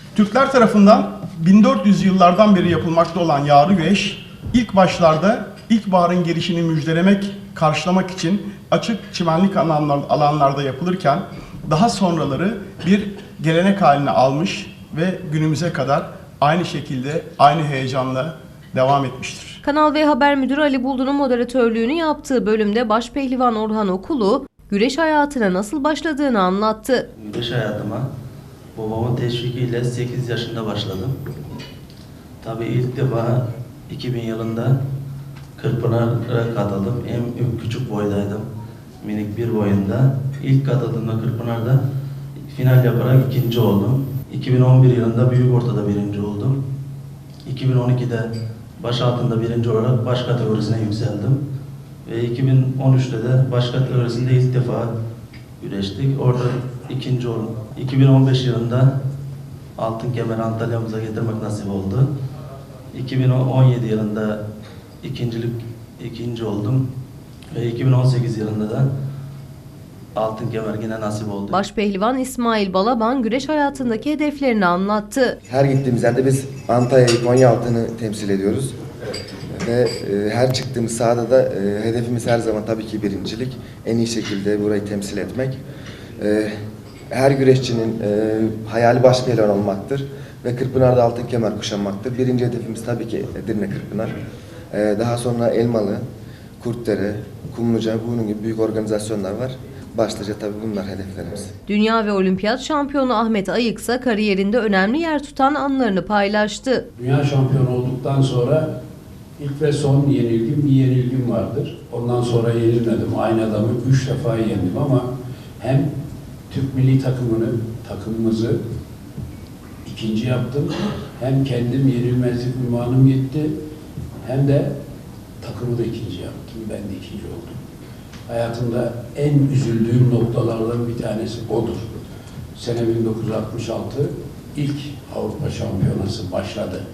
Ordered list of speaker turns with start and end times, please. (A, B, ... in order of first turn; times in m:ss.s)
0:00.1-0:19.6 A
0:19.6-0:27.1 B
0:27.2-0:28.1 C
0:28.8-0:31.2 C
0:32.4-0:34.8 C
0:35.6-0:38.5 C
0:39.0-0:41.8 C
0:42.5-0:46.6 C
0:47.4-0:51.4 C
0:52.1-0:54.9 C
0:55.6-0:58.9 C
0:59.8-1:02.1 C
1:02.9-1:04.4 C
1:05.0-1:06.9 C
1:07.5-1:08.9 C
1:10.2-1:11.6 C
1:11.5-1:15.4 B
1:15.5-1:18.8 D
1:19.5-1:25.6 D
1:26.2-1:26.6 D
1:27.1-1:34.2 D
1:34.7-1:36.0 D
1:36.6-1:41.5 D
1:41.7-1:46.9 B
1:46.9-1:48.7 E
1:49.4-1:55.9 E
1:56.5-1:58.6 E
1:59.8-2:03.6 E
2:04.2-2:04.8 E
2:05.4-2:07.6 E
2:08.3-2:16.8 E